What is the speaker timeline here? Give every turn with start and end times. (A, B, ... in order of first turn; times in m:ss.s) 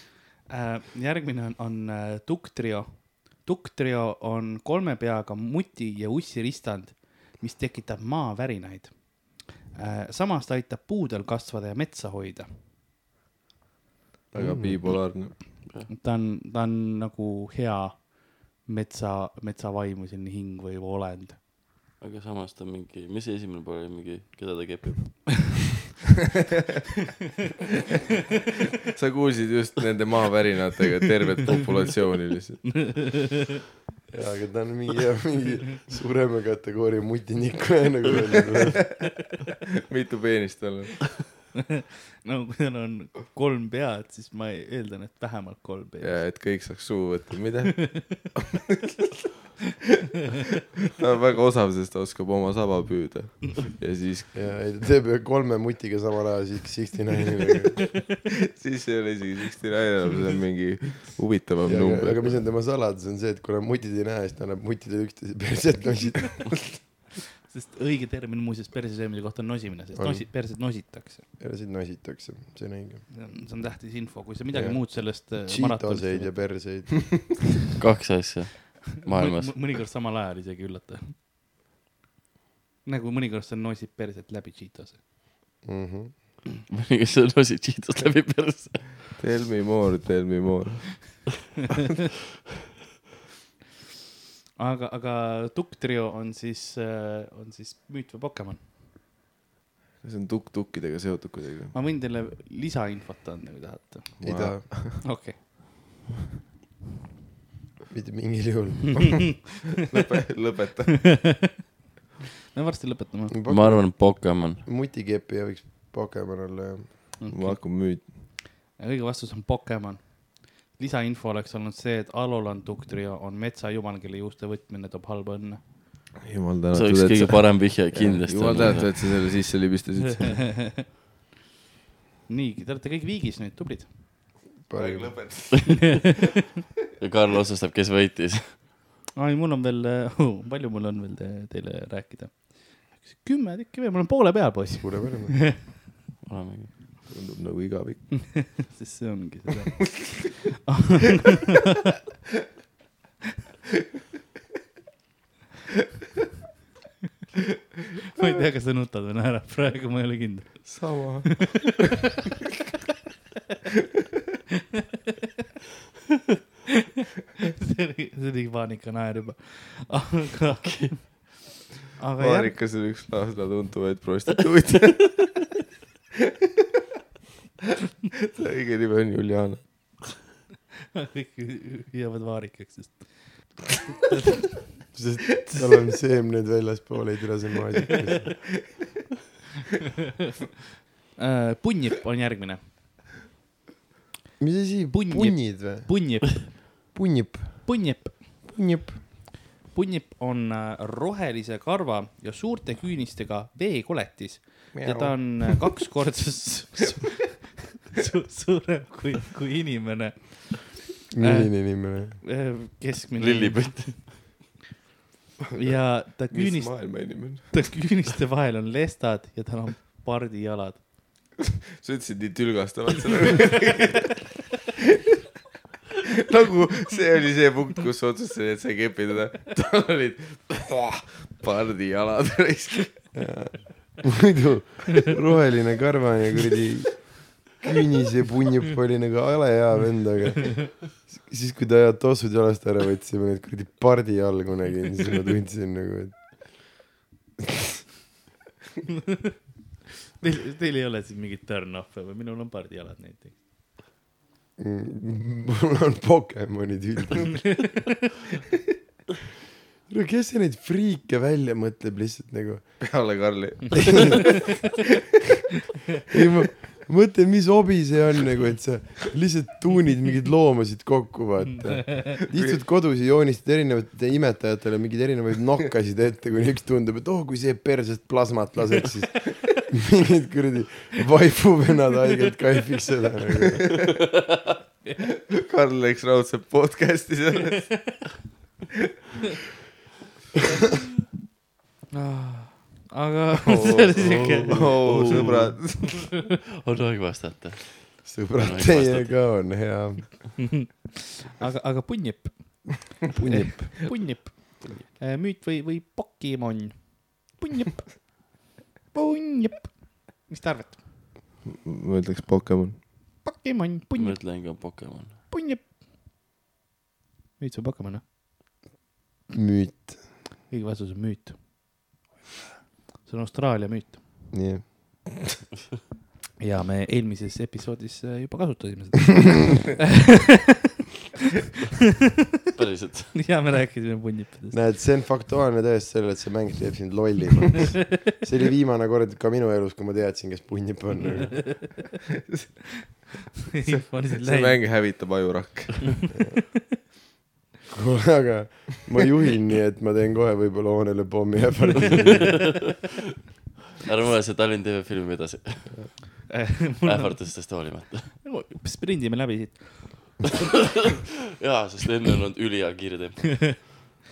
0:00.5-0:12.5 A
0:14.3-0:15.4 B
0:14.3-0:14.8 C
0:15.9-0:21.4 A
0:22.0-0:25.6 D
0:28.8-0:32.9 B
0:32.8-0:33.3 A
0:34.1-0:38.9 C
0:39.9-0:41.2 B
0:42.2-0:46.2 A
0:46.0-0:49.1 B
0:51.0-0:54.3 B
0:54.3-0:57.8 C
0:58.5-1:02.4 B
1:01.6-1:06.5 C
1:07.5-1:11.2 A
1:09.9-1:10.3 C
1:11.4-1:13.0 C
1:13.1-1:16.5 A
1:14.5-1:17.4 C
1:17.8-1:19.6 D
1:19.0-1:21.2 A
1:22.8-1:25.0 A
1:25.6-1:26.1 C
1:26.7-1:28.9 D
1:29.2-1:31.2 B
1:34.6-1:38.6 A
1:40.0-1:41.7 B
1:41.7-1:45.6 A
1:44.2-1:45.0 B
1:44.2-1:45.0 C
1:47.9-1:49.4 C
1:49.8-1:51.3 B
1:51.1-1:51.4 A
1:52.5-1:53.3 A
1:53.3-1:57.1 C
1:53.5-1:54.6 D
1:57.2-2:05.6 A
1:57.3-1:58.1 B
2:06.2-2:10.7 B
2:06.7-2:09.1 D
2:12.3-2:13.9 A
2:14.7-2:15.3 C
2:14.7-2:16.1 B
2:17.0-2:18.6 D
2:19.2-2:25.6 A
2:24.8-2:25.4 C
2:26.2-2:26.7 D
2:27.0-2:28.6 B
2:28.3-2:31.4 A
2:38.1-2:41.1 A
2:40.6-2:41.8 B
2:47.6-2:51.3 A
2:50.6-2:51.1 D
2:52.0-2:52.5 A
2:52.2-2:55.3 B
2:58.4-2:59.9 B
3:00.9-3:04.7 A
3:04.9-3:08.5 C
3:11.2-3:12.6 A
3:14.4-3:19.0 C
3:14.9-3:17.0 A
3:17.6-3:18.5 A
3:19.6-3:33.9 A
3:24.7-3:25.4 C
3:31.1-3:32.2 C
3:33.2-3:34.1 D
3:35.5-3:40.8 A
3:36.3-3:37.7 B
3:41.8-3:44.2 B
3:46.2-3:53.1 B
3:53.1-4:06.7 C
4:10.2-4:13.3 A
4:14.6-4:17.7 C
4:19.9-4:23.0 C
4:22.8-4:24.4 B
4:26.1-4:43.7 C
4:32.3-4:32.6 B
4:45.3-4:47.9 B
4:51.9-4:55.3 A
4:53.5-4:56.0 B
4:54.8-4:59.3 D
4:58.0-5:00.4 C
5:00.4-5:08.4 A
5:03.1-5:03.7 C
5:08.9-5:10.8 A
5:11.4-5:12.8 B
5:13.2-5:14.5 A
5:14.0-5:15.2 D
5:15.3-5:15.6 A
5:17.4-5:18.0 A
5:19.3-5:20.0 C
5:20.5-5:21.4 A
5:23.0-5:24.0 A
5:24.3-5:25.0 C
5:26.4-5:29.8 A
5:32.5-5:33.2 D
5:33.1-5:34.6 A
5:34.5-5:41.4 C
5:43.5-5:44.6 A
5:43.6-5:46.1 B
5:47.7-5:52.6 C
5:51.9-5:52.4 D
5:53.8-5:55.7 D
5:56.3-5:57.5 A
5:56.8-5:58.1 D
5:58.2-6:00.2 A
6:01.4-6:03.6 D